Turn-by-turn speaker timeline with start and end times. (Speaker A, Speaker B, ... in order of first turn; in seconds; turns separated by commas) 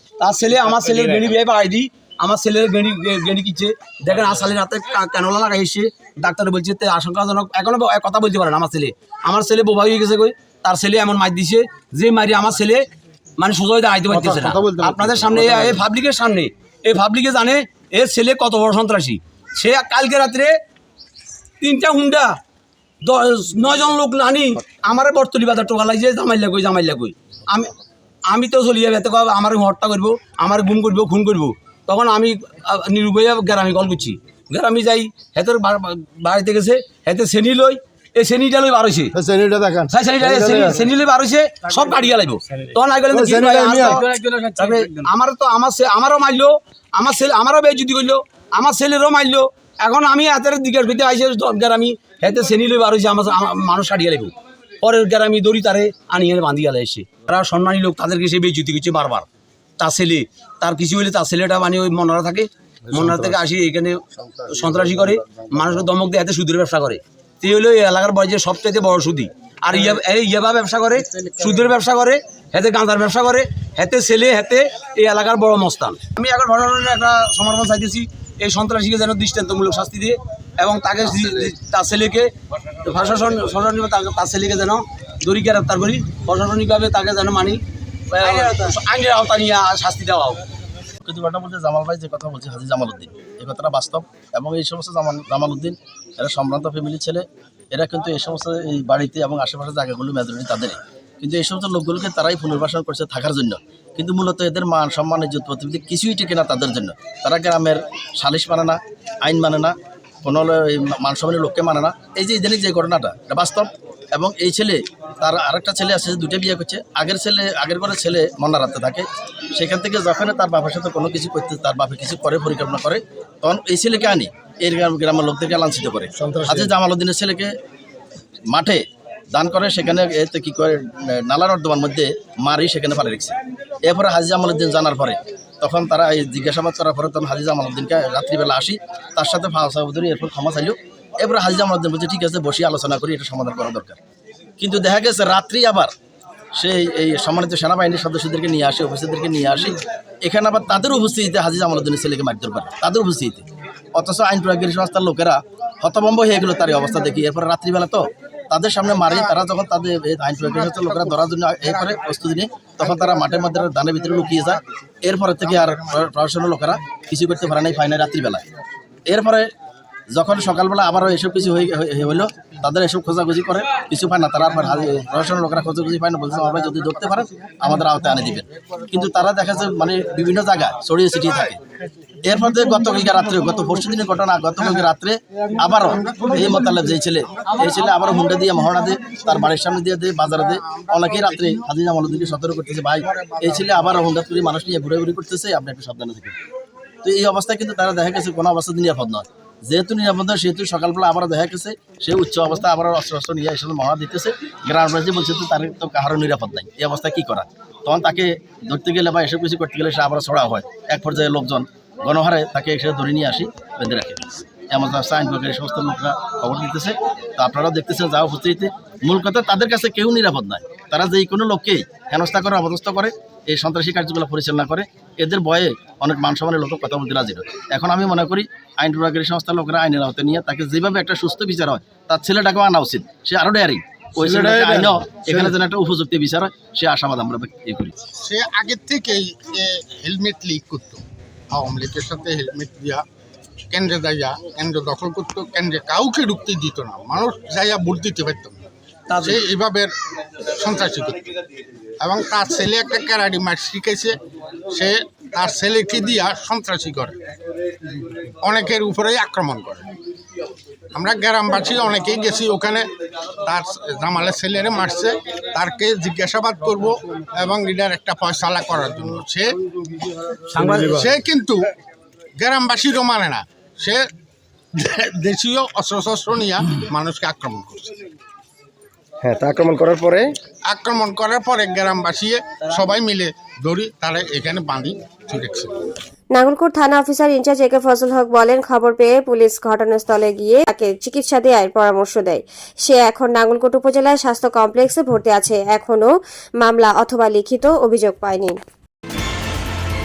Speaker A: 0.2-20.6, Speaker B: 14.4-15.0, Speaker A: 21.6-22.4, Speaker A: 23.0-27.7, Speaker A: 28.3-39.2, Speaker A: 39.9-59.3, Speaker B: 40.4-40.7, Speaker B: 43.2-43.9, Speaker A: 59.8-90.4, Speaker C: 91.0-127.5, Speaker C: 128.5-144.0, Speaker C: 144.6-145.9, Speaker C: 146.6-168.4, Speaker C: 169.1-169.5, Speaker C: 170.1-181.6, Speaker C: 182.2-196.4, Speaker C: 197.0-238.0, Speaker B: 234.2-234.8, Speaker D: 238.2-243.0, Speaker D: 243.7-248.6, Speaker A: 249.1-249.4, Speaker D: 249.2-249.9, Speaker D: 250.6-251.3, Speaker D: 252.0-254.2, Speaker D: 254.7-257.2, Speaker D: 258.4-259.9, Speaker D: 260.9-262.9, Speaker D: 263.4-269.6, Speaker A: 270.5-271.1, Speaker D: 270.8-271.6, Speaker D: 272.4-274.1, Speaker D: 274.8-278.0, Speaker B: 279.3-280.2, Speaker D: 280.6-285.8, Speaker E: 286.3-298.6